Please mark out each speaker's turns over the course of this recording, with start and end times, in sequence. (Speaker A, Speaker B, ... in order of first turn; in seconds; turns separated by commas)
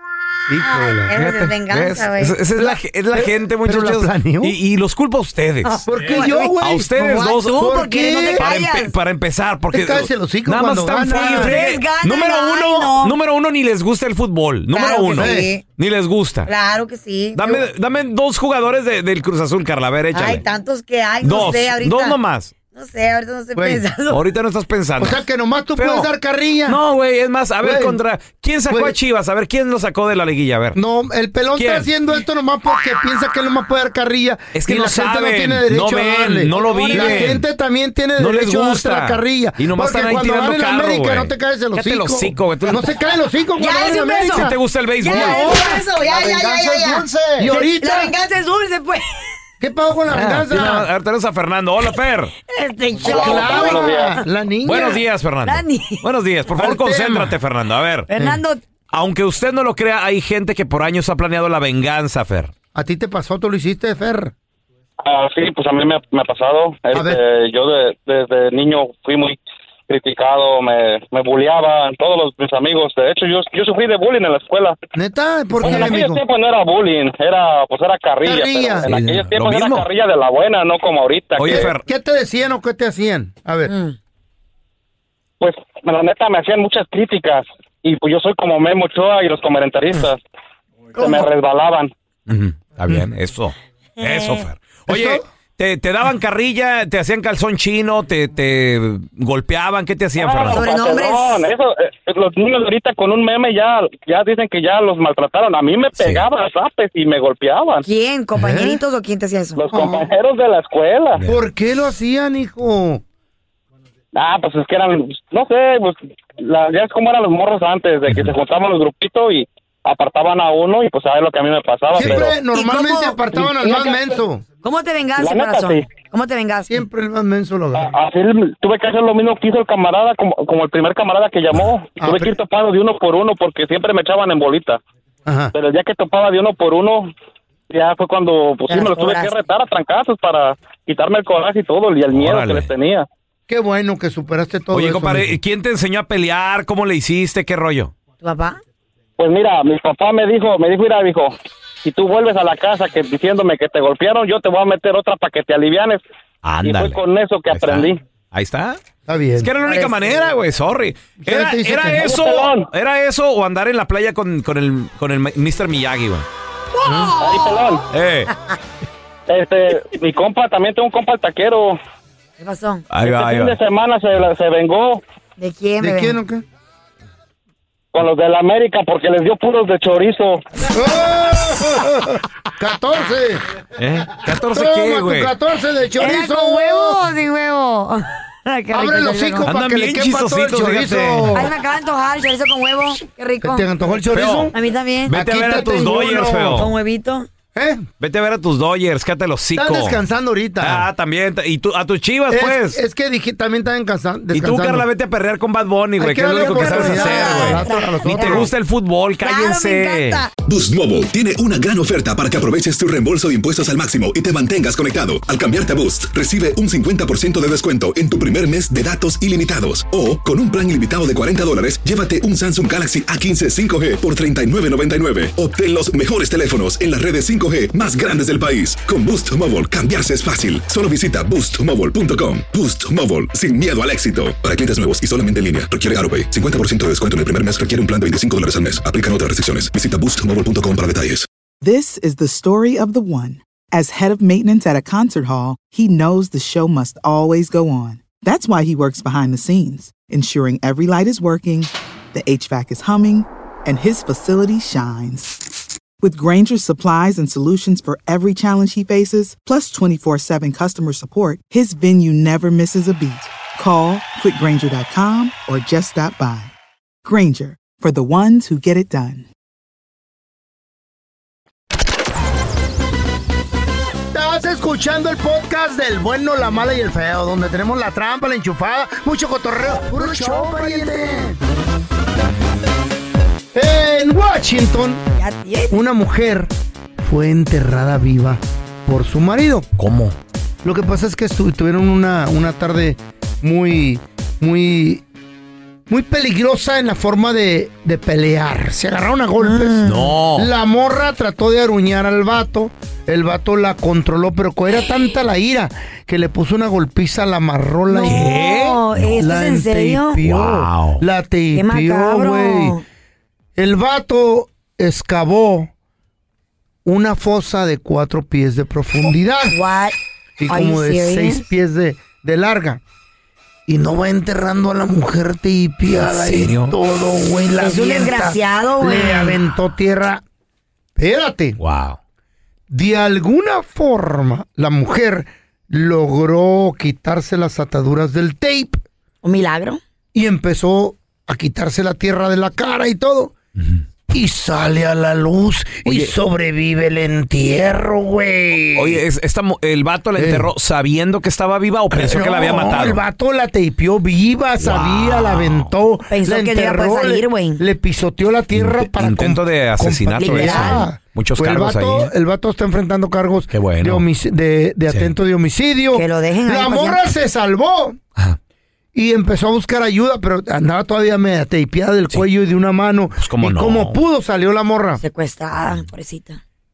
Speaker A: 0.5-1.1, Speaker B: 0.6-2.4, Speaker C: 1.1-7.7, Speaker A: 2.6-4.6, Speaker B: 5.6-8.9, Speaker A: 5.9-8.5, Speaker C: 8.4-16.5, Speaker A: 9.7-11.7, Speaker B: 11.1-13.2, Speaker B: 14.7-15.6, Speaker A: 15.1-15.5, Speaker B: 16.5-17.7, Speaker C: 17.4-20.4, Speaker B: 20.1-24.2, Speaker C: 21.2-22.5, Speaker A: 23.6-23.8, Speaker C: 24.1-25.2, Speaker A: 25.0-26.8, Speaker C: 25.8-26.1, Speaker C: 26.7-30.8, Speaker A: 27.6-28.0, Speaker A: 28.7-29.0, Speaker A: 30.7-48.1, Speaker C: 31.6-31.9, Speaker C: 34.5-37.5, Speaker B: 36.6-37.2, Speaker C: 38.2-43.0, Speaker B: 43.6-49.3, Speaker C: 44.2-45.4, Speaker A: 49.6-50.9, Speaker C: 50.1-52.3, Speaker B: 52.5-54.2, Speaker A: 53.0-55.0, Speaker D: 53.0-54.2, Speaker C: 54.6-58.1, Speaker B: 55.5-56.0, Speaker A: 56.5-57.4, Speaker B: 58.1-58.6, Speaker C: 58.9-62.5, Speaker A: 62.8-64.3, Speaker D: 65.0-74.8, Speaker A: 66.9-67.2, Speaker A: 75.0-76.2, Speaker D: 75.6-81.7, Speaker A: 78.2-78.9, Speaker C: 78.9-79.9, Speaker C: 81.4-81.8, Speaker A: 81.5-83.7, Speaker B: 83.7-84.0, Speaker D: 85.4-90.2, Speaker B: 91.0-91.3, Speaker D: 91.0-91.9, Speaker C: 92.3-100.7, Speaker B: 94.0-94.4, Speaker A: 94.9-95.2, Speaker D: 100.2-107.9, Speaker B: 100.5-101.4, Speaker C: 106.0-106.2, Speaker B: 107.8-109.7, Speaker A: 108.4-108.8, Speaker D: 109.6-111.2, Speaker A: 109.7-110.1, Speaker A: 111.3-113.0, Speaker D: 114.2-122.4, Speaker A: 122.0-124.4, Speaker B: 122.5-123.9, Speaker B: 124.6-126.8, Speaker D: 125.2-125.9, Speaker A: 126.7-127.9, Speaker D: 127.8-134.8, Speaker A: 132.0-132.4, Speaker A: 135.3-135.5, Speaker D: 135.5-137.1, Speaker D: 137.7-143.1, Speaker B: 138.7-139.4, Speaker C: 142.1-142.7, Speaker A: 143.5-145.4, Speaker C: 144.7-147.9, Speaker B: 148.2-148.6, Speaker D: 149.2-156.0, Speaker C: 156.4-158.8, Speaker D: 156.6-158.0, Speaker A: 159.1-159.5, Speaker C: 159.4-166.3, Speaker B: 159.6-160.2, Speaker A: 161.2-162.2, Speaker D: 162.0-162.7, Speaker A: 166.9-167.1, Speaker B: 167.0-167.7, Speaker D: 167.2-167.8, Speaker C: 167.9-168.3, Speaker B: 168.3-168.6, Speaker D: 169.3-171.8, Speaker B: 172.4-172.9, Speaker C: 172.9-173.6, Speaker D: 173.0-175.0, Speaker B: 175.4-176.2, Speaker A: 175.8-176.4, Speaker D: 177.9-180.4, Speaker A: 180.7-183.4, Speaker C: 183.8-185.3, Speaker A: 184.3-187.0, Speaker B: 186.0-189.5, Speaker A: 188.7-191.5, Speaker C: 189.4-191.4, Speaker B: 191.3-193.7, Speaker A: 193.4-194.6, Speaker C: 194.1-194.5, Speaker B: 194.5-195.1, Speaker C: 195.1-196.7, Speaker A: 195.1-196.6, Speaker B: 196.5-197.3, Speaker A: 197.5-197.9, Speaker C: 198.0-200.0, Speaker A: 199.6-200.9, Speaker C: 200.6-202.8, Speaker A: 202.3-204.9, Speaker C: 204.3-210.2, Speaker A: 206.0-208.5, Speaker B: 206.4-208.5, Speaker B: 209.2-210.3, Speaker E: 210.5-241.3, Speaker F: 241.6-255.5, Speaker F: 256.0-266.5, Speaker F: 267.1-269.3, Speaker A: 274.1-281.4, Speaker B: 279.9-281.0, Speaker A: 283.5-285.0, Speaker B: 285.2-285.8, Speaker A: 285.7-289.7, Speaker C: 289.8-290.2, Speaker A: 290.6-295.0, Speaker A: 295.9-308.4, Speaker B: 299.4-300.1, Speaker C: 299.8-300.5, Speaker B: 307.9-310.2, Speaker C: 308.0-309.2, Speaker A: 309.1-312.8, Speaker C: 310.2-311.0, Speaker B: 311.5-312.8, Speaker A: 313.6-315.7, Speaker A: 316.9-319.6, Speaker B: 319.5-321.5, Speaker A: 320.4-322.8, Speaker A: 323.7-330.2, Speaker C: 326.1-326.8, Speaker B: 327.6-329.4, Speaker A: 331.0-331.6, Speaker C: 331.6-332.0, Speaker A: 332.7-338.8, Speaker B: 339.2-339.8, Speaker A: 340.1-343.3, Speaker A: 344.1-349.0, Speaker C: 345.9-346.1, Speaker C: 348.8-353.0, Speaker A: 350.2-350.5, Speaker A: 351.9-368.0, Speaker C: 354.6-355.7, Speaker B: 356.1-357.6, Speaker C: 358.5-362.1, Speaker B: 360.2-360.9, Speaker C: 363.5-364.1, Speaker B: 365.9-367.0, Speaker A: 368.9-375.0, Speaker C: 373.2-374.0, Speaker B: 375.0-376.4